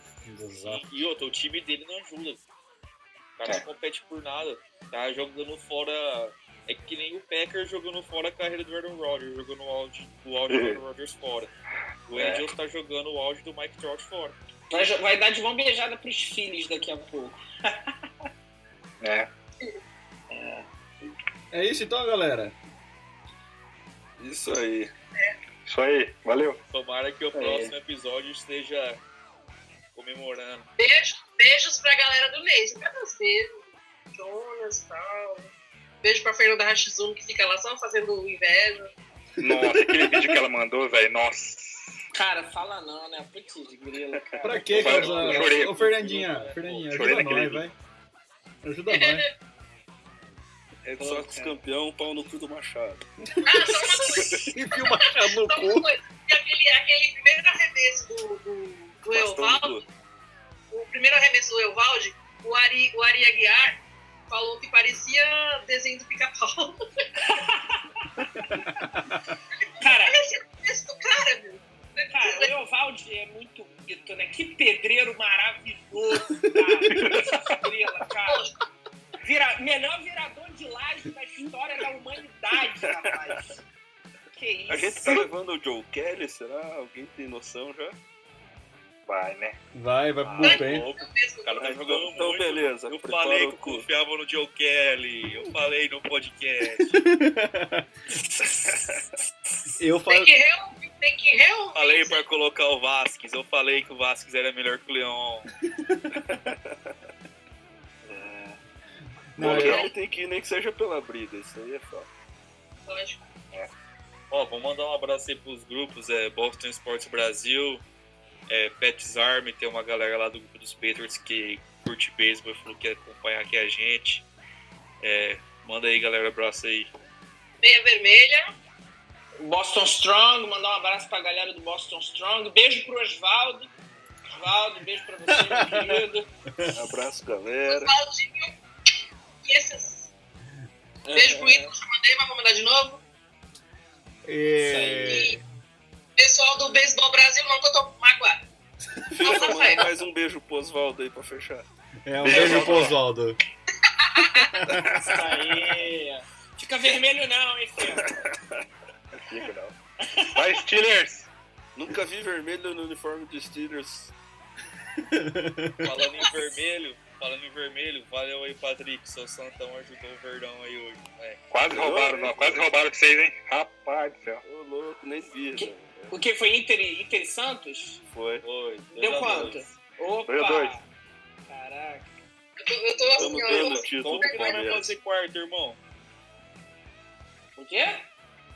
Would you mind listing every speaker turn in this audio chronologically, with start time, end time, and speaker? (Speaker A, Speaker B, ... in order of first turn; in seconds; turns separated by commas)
Speaker A: 0.2-0.9, Speaker B: 0.7-2.4, Speaker B: 3.4-11.5, Speaker C: 10.5-10.8, Speaker B: 12.1-14.4, Speaker C: 12.2-12.5, Speaker D: 14.7-18.0, Speaker C: 19.0-19.3, Speaker D: 20.3-20.7, Speaker A: 21.5-22.6, Speaker E: 24.2-24.9, Speaker C: 25.7-26.6, Speaker B: 26.7-29.0, Speaker D: 27.3-27.7, Speaker B: 29.9-30.7, Speaker F: 30.8-33.6, Speaker F: 34.1-35.5, Speaker F: 36.0-38.9, Speaker C: 39.4-42.0, Speaker A: 39.4-40.1, Speaker D: 42.1-45.5, Speaker E: 44.1-45.3, Speaker A: 44.4-47.7, Speaker C: 44.7-45.9, Speaker B: 44.9-47.4, Speaker C: 46.9-47.7, Speaker A: 48.6-49.3, Speaker F: 48.9-49.2, Speaker E: 50.9-53.1, Speaker D: 51.0-51.6, Speaker A: 53.3-55.9, Speaker F: 53.4-59.8, Speaker C: 54.1-54.5, Speaker E: 59.1-59.8, Speaker F: 60.7-63.8, Speaker F: 64.3-66.8, Speaker D: 67.2-68.1, Speaker A: 68.4-69.4, Speaker D: 69.8-70.2, Speaker F: 69.8-72.5, Speaker D: 72.1-78.5, Speaker A: 76.5-77.2, Speaker C: 76.9-77.6, Speaker F: 78.3-78.6, Speaker D: 79.2-83.6, Speaker E: 83.0-83.4, Speaker D: 84.3-85.2, Speaker E: 84.7-88.0, Speaker C: 89.1-89.6, Speaker A: 89.7-90.9, Speaker B: 90.2-97.0, Speaker F: 90.4-91.7, Speaker E: 91.6-93.9, Speaker A: 96.9-97.9, Speaker E: 98.6-98.9, Speaker A: 99.8-100.3, Speaker F: 100.1-102.2, Speaker B: 101.8-105.5, Speaker A: 105.6-106.3, Speaker E: 106.3-106.9, Speaker C: 108.1-108.6, Speaker A: 109.3-109.9, Speaker E: 109.4-112.1, Speaker C: 109.4-109.9, Speaker F: 112.9-113.2, Speaker B: 114.3-117.8, Speaker B: 118.5-124.3, Speaker B: 125.0-126.9, Speaker F: 127.6-128.5, Speaker D: 129.4-133.7, Speaker D: 134.3-136.3, Speaker A: 135.3-136.8, Speaker E: 136.7-138.0, Speaker F: 137.7-138.5, Speaker F: 139.4-140.1, Speaker D: 141.1-141.7, Speaker F: 141.1-143.0, Speaker A: 144.3-145.4, Speaker D: 144.6-145.4, Speaker F: 146.2-148.4, Speaker E: 149.1-151.7, Speaker F: 149.2-149.9, Speaker A: 152.1-153.4, Speaker C: 152.2-153.0, Speaker E: 152.3-152.9, Speaker F: 154.0-154.6, Speaker E: 154.7-155.2, Speaker D: 154.8-158.2, Speaker E: 157.9-158.7, Speaker C: 159.2-161.3, Speaker D: 160.0-160.5, Speaker E: 161.8-164.1, Speaker A: 165.0-165.9, Speaker B: 165.8-171.4, Speaker C: 171.5-174.4, Speaker E: 171.7-172.7, Speaker E: 174.4-176.2, Speaker D: 175.6-178.0, Speaker E: 178.1-178.5, Speaker B: 178.4-179.8, Speaker D: 178.9-180.8, Speaker C: 180.3-180.8, Speaker D: 181.5-182.1, Speaker F: 182.6-184.9, Speaker E: 183.2-184.9, Speaker B: 183.4-185.8, Speaker D: 187.6-188.0